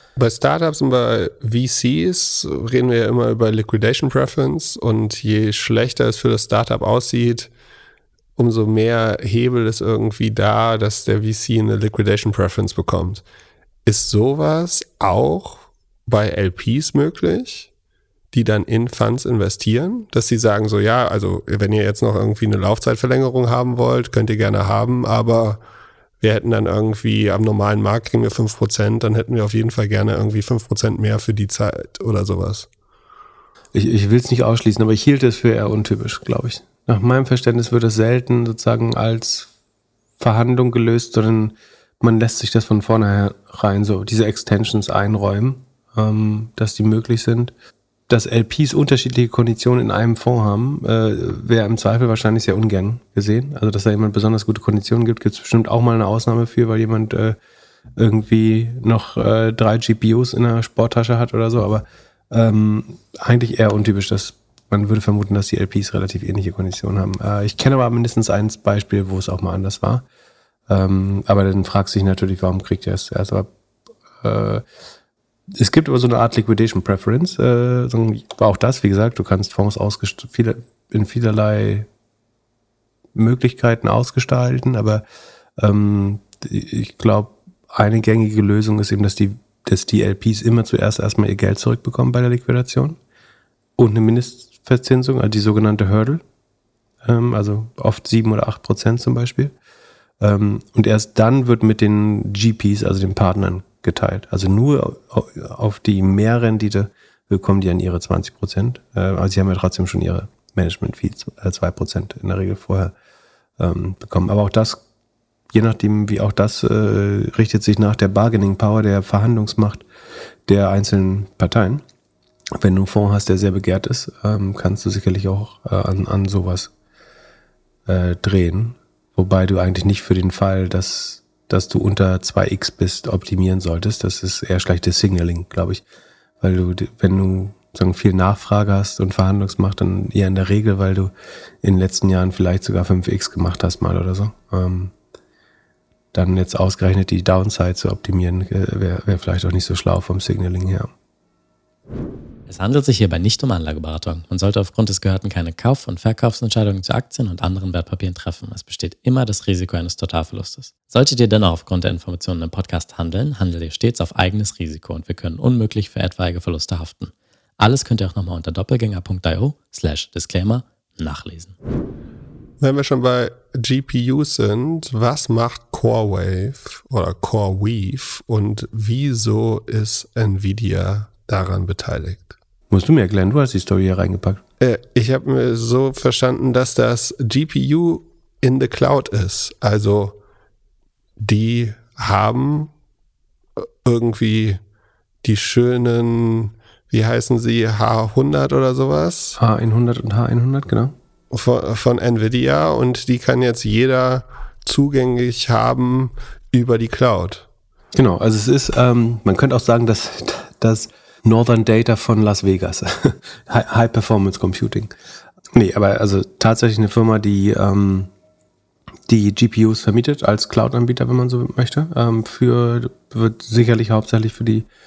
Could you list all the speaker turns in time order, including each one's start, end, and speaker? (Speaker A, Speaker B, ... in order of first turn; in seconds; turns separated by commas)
Speaker A: 0.1-7.5, Speaker A: 8.3-13.2, Speaker A: 13.8-17.7, Speaker A: 18.3-25.6, Speaker A: 26.2-32.7, Speaker B: 33.7-39.5, Speaker B: 40.2-47.5, Speaker B: 48.1-57.4, Speaker B: 58.0-70.0, Speaker B: 70.7-73.5, Speaker B: 74.2-74.6, Speaker B: 75.5-81.9, Speaker B: 83.2-85.0, Speaker B: 85.6-93.0, Speaker B: 93.8-96.2, Speaker B: 97.0-99.5, Speaker B: 100.2-112.9, Speaker B: 113.6-114.8, Speaker B: 115.5-119.8, Speaker B: 120.5-121.8, Speaker B: 122.6-126.7, Speaker B: 127.9-135.8, Speaker B: 136.4-141.1, Speaker B: 141.6-144.9, Speaker B: 146.1-150.9, Speaker C: 152.5-171.5, Speaker A: 172.6-182.3, Speaker B: 182.7-184.4, Speaker A: 184.6-190.2, Speaker A: 191.2-192.7, Speaker A: 193.6-194.6, Speaker A: 195.2-199.4, Speaker B: 199.4-200.9, Speaker A: 201.3-207.4, Speaker B: 207.9-214.9, Speaker B: 215.5-218.1, Speaker B: 219.1-224.7